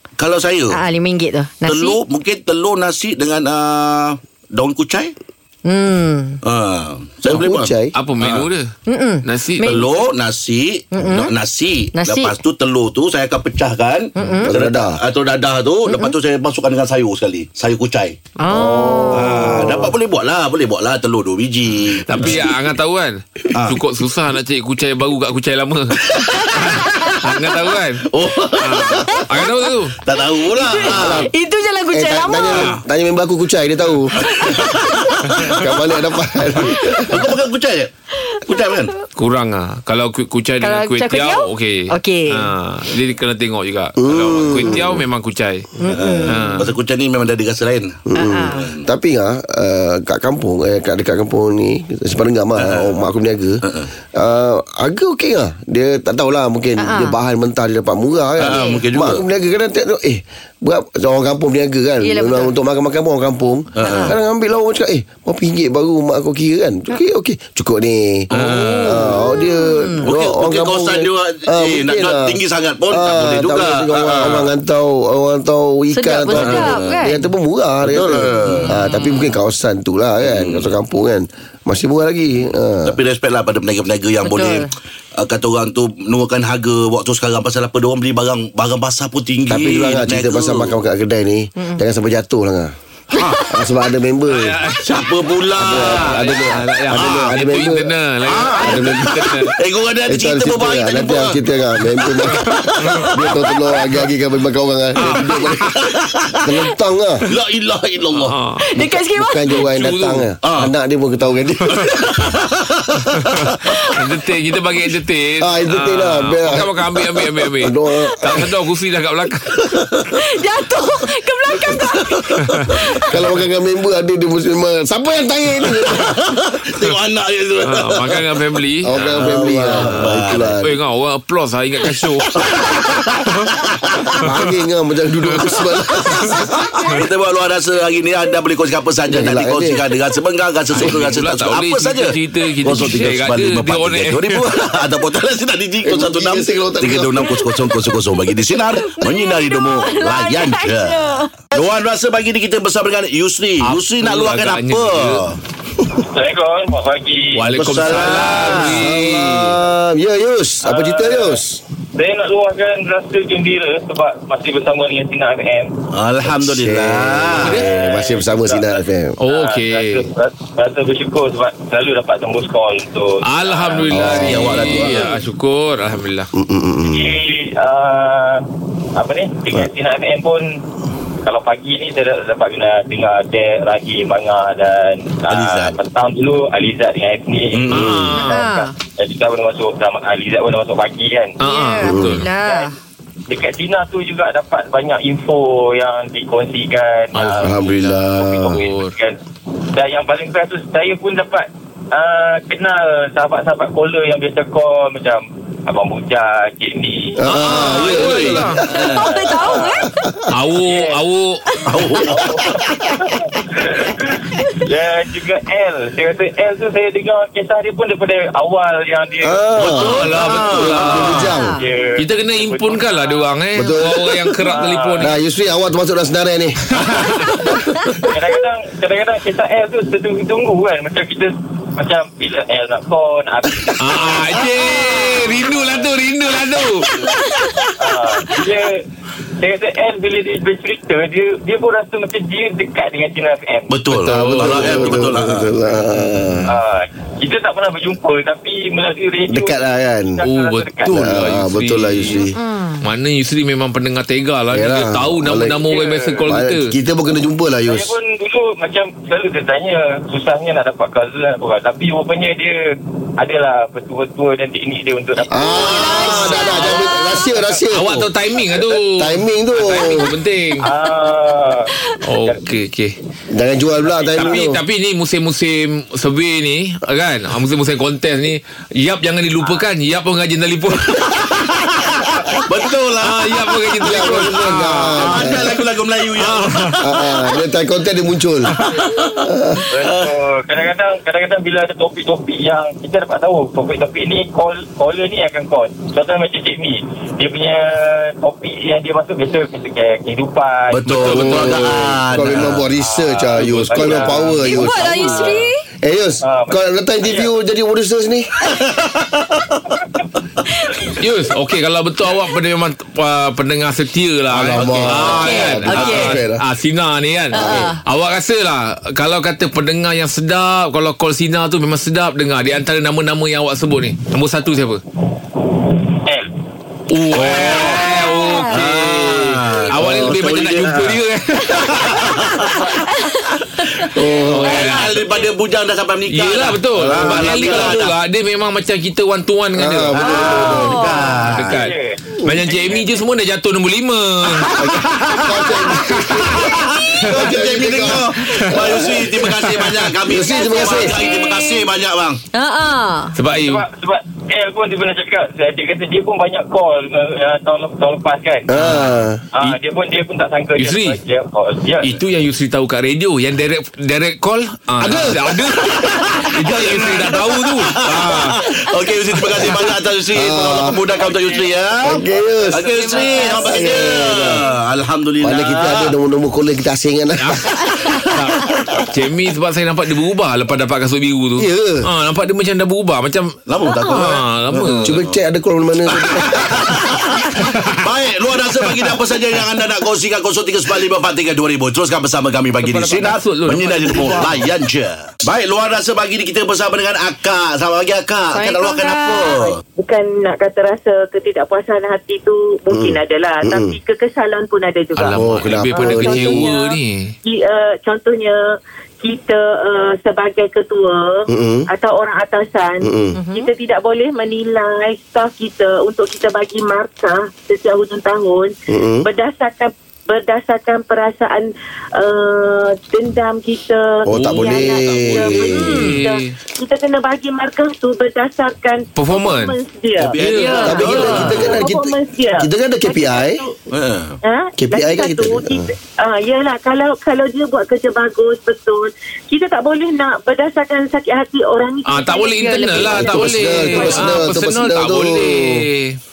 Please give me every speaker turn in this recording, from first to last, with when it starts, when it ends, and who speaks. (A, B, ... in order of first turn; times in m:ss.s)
0:00.2-0:00.8 A
0:00.7-0:02.0 B
0:01.6-0:05.1 A
0:05.6-0:06.4 B
0:06.4-0:08.5 A
0:07.2-0:08.0 C
0:07.3-0:08.7 D
0:08.9-0:10.0 B
0:09.2-0:09.8 D
0:09.6-0:18.2 A
0:10.9-0:11.3 B
0:11.9-0:12.3 B
0:14.2-0:14.6 B
0:14.4-0:15.0 C
0:15.9-0:16.2 B
0:18.4-0:19.9 B
0:18.5-0:20.0 C
0:19.1-0:22.6 A
0:22.1-0:30.0 D
0:23.5-0:23.8 A
0:26.1-0:27.5 A
0:28.1-0:29.2 A
0:30.0-0:31.3 A
0:30.2-0:32.7 B
0:30.9-0:31.3 C
0:31.9-0:34.8 C
0:32.5-0:32.8 A
0:34.2-0:35.7 A
0:35.3-0:37.3 C
0:35.3-0:35.7 D
0:36.6-0:37.9 A
0:38.2-0:39.0 B
0:38.4-0:38.9 A
0:39.1-0:45.7 D
0:40.6-0:42.5 B
0:44.0-0:45.0 C
0:45.8-0:46.7 B
0:45.8-0:48.8 A
0:46.3-0:46.7 D
0:48.1-0:53.6 C
0:48.1-0:48.8 B
0:52.6-0:52.9 A
0:53.6-0:53.9 A
0:54.1-1:08.3 C
0:56.8-0:57.2 B
0:58.4-0:59.2 A
0:58.5-0:58.9 B
1:02.0-1:02.5 B
1:03.8-1:04.1 A
1:03.8-1:04.2 B
1:08.3-1:09.1 A
1:08.3-1:09.2 D
1:08.9-1:23.0 C
1:09.2-1:10.1 B
1:10.0-1:14.5 A
1:15.9-1:17.2 B
1:16.3-1:17.0 A
1:17.9-1:18.8 A
1:20.2-1:20.7 A
1:22.9-1:30.7 A
1:24.2-1:24.7 B
1:29.5-1:32.7 C
1:33.1-1:33.5 A
1:33.4-1:34.6 C
1:34.3-1:39.6 D
1:34.7-1:36.4 A
1:35.6-1:38.0 C
1:36.9-1:37.3 A
1:38.2-1:43.8 A
1:38.5-1:39.4 C
1:40.1-1:45.7 C
1:42.3-1:43.2 D
1:45.0-1:45.9 D
1:45.0-1:46.4 A
1:46.4-1:47.3 C
1:47.3-1:48.4 A
1:48.1-1:48.6 D
1:48.6-1:49.6 B
1:48.8-1:51.9 C
1:49.5-1:50.3 D
1:50.4-1:50.7 A
1:51.7-1:53.8 A
1:53.2-1:59.7 D
1:53.7-1:54.0 B
1:55.4-1:58.5 C
1:57.9-1:58.3 B
1:59.7-2:00.0 A
2:00.1-2:03.2 B
2:01.8-2:02.7 A
2:02.4-2:02.8 D
2:03.1-2:06.1 C
2:05.7-2:08.3 A
2:07.6-2:13.5 D
2:08.8-2:10.8 C
2:08.9-2:10.6 A
2:11.8-2:14.1 A
2:14.1-2:14.5 D
2:14.2-2:16.6 C
2:15.2-2:16.4 D
2:16.0-2:35.4 A
2:19.1-2:19.8 C
2:20.7-2:24.5 D
2:25.8-2:27.6 C
2:28.3-2:31.4 B
2:33.6-2:35.2 D
2:36.0-2:38.4 E
2:37.4-2:39.6 D
2:37.5-2:38.8 A
2:38.6-2:41.6 C
2:40.6-2:41.4 E
2:42.0-2:45.8 E
2:45.9-2:47.6 A
2:46.2-2:49.2 C
2:47.4-2:47.7 D
2:47.6-2:54.0 E
2:49.2-2:50.0 D
2:53.2-2:56.3 D
2:53.9-2:54.9 C
2:54.0-2:55.1 A
2:56.3-2:57.1 C
2:56.8-2:58.4 E
2:59.0-3:00.4 E
3:01.2-3:11.4 E
3:05.3-3:05.7 A
3:07.5-3:08.1 A
3:07.7-3:08.5 D
3:08.2-3:08.7 B
3:11.4-3:12.3 D
3:11.4-3:12.8 B
3:11.9-3:12.2 C
3:12.3-3:12.7 E
3:13.3-3:19.2 E
3:17.1-3:17.7 D
3:17.4-3:18.6 C
3:18.5-3:18.9 D
3:19.7-3:27.5 E
3:27.2-3:28.7 C
3:27.3-3:28.6 D
3:28.0-3:29.1 A
3:28.7-3:30.1 B
3:29.2-3:29.9 E
3:29.9-3:30.2 C
3:30.3-3:31.4 D
3:30.6-3:31.0 E
3:31.5-3:31.7 B
3:31.6-3:32.2 A
3:32.0-3:40.0 E
3:39.2-3:41.6 C
3:39.6-3:41.3 D
3:39.6-3:41.3 A
3:41.2-3:41.6 B
3:41.6-3:43.3 E
3:42.0-3:45.1 D
3:43.6-3:44.3 C
3:44.4-3:45.1 E
3:45.0-3:46.7 C
3:46.7-3:47.6 D
3:48.0-3:55.9 E
3:53.8-3:56.9 D
3:57.0-3:57.7 B
3:57.8-3:58.8 E
3:59.4-4:03.8 E
4:03.7-4:05.5 A
4:03.9-4:05.1 D
4:04.1-4:06.5 C
4:05.8-4:06.5 D
4:06.4-4:11.0 E
4:09.3-4:10.2 C
4:10.2-4:12.3 D
4:10.9-4:12.4 C
4:12.3-4:12.9 B
4:12.8-4:16.7 D
4:14.5-4:15.7 C
4:15.6-4:16.2 E
4:16.2-4:17.9 C
4:17.6-4:22.6 E
4:23.2-4:26.8 E
4:25.3-4:30.1 C
4:25.4-4:27.3 B
4:25.9-4:26.7 D
4:27.7-4:30.7 D
4:30.6-4:32.4 E
4:32.0-4:32.9 D
4:33.3-4:34.6 C
4:33.9-4:34.3 E
4:34.2-4:41.4 D
4:41.0-4:44.3 A
4:43.0-4:45.6 D
4:43.8-4:45.6 C
4:44.9-4:47.0 A
4:46.1-4:46.8 D
4:46.8-4:48.6 C
4:48.5-4:49.3 A
4:49.2-4:49.7 C
4:49.7-5:01.5 E
4:49.8-4:50.1 A
5:00.7-5:02.6 A
5:00.9-5:02.0 D
5:01.1-5:05.2 C
5:02.7-5:05.5 E
5:03.3-5:05.4 D
5:04.5-5:05.6 B
5:05.8-5:08.3 C
5:06.2-5:07.3 E
5:08.4-5:09.6 A
5:10.6-5:10.9 B
5:11.0-5:24.8 D
5:14.3-5:16.4 C
5:14.5-5:16.1 A
5:15.1-5:16.2 B
5:17.3-5:17.8 B
5:17.4-5:17.6 C
5:26.0-5:26.3 E
5:26.9-5:32.2 D
5:27.1-5:32.8 A
5:27.8-5:28.6 B
5:29.8-5:30.2 C
5:32.1-5:33.9 B
5:33.6-5:37.9 A
5:33.9-5:34.7 C
5:34.3-5:35.0 D
5:34.5-5:35.2 B
5:36.1-5:44.9 D
5:36.8-5:37.9 C
5:39.6-5:40.9 C
5:40.0-5:41.6 A
5:40.2-5:41.2 B
5:41.3-5:43.0 E
5:44.6-5:49.1 C
5:44.7-5:45.5 A
5:45.6-5:47.3 D
5:46.1-5:52.2 A
5:48.2-5:50.0 D
5:50.1-5:51.0 C
5:50.3-5:51.7 B
5:52.3-5:53.1 B
5:53.1-5:53.6 D
5:53.4-5:58.5 E
5:58.5-5:59.2 C
5:58.5-5:59.6 D
5:59.3-6:02.0 E
6:00.6-6:01.0 D
6:01.8-6:08.5 D
6:04.8-6:05.3 C
6:04.8-6:12.0 A
6:10.1-6:10.8 C
6:11.8-6:14.4 C
6:12.5-6:15.9 A
6:12.6-6:13.8 B
6:15.2-6:17.6 C
6:17.2-6:23.4 D
6:21.4-6:21.9 C
6:23.5-6:25.2 A
6:23.7-6:24.1 B
6:23.9-6:25.0 D
6:24.8-6:27.0 C
6:25.9-6:39.6 A
6:27.3-6:27.8 D
6:32.6-6:34.5 D
6:38.3-6:39.5 B
6:39.8-7:13.6 F
6:42.7-6:43.8 C
6:44.9-6:47.1 D
6:45.2-6:46.5 C
6:51.3-6:51.6 C
6:52.8-6:53.2 C
6:53.1-6:53.5 B
6:58.7-6:59.1 C
7:04.0-7:05.8 C
7:04.1-7:06.3 D
7:05.4-7:06.0 B
7:09.0-7:09.6 D
7:10.0-7:11.6 A
7:10.2-7:11.3 D
7:10.3-7:11.3 B
7:10.6-7:13.4 C
7:13.7-7:14.2 A
7:14.2-7:24.2 F
7:14.6-7:15.7 C
7:21.8-7:26.0 D
7:22.5-7:23.3 B
7:22.8-7:25.6 C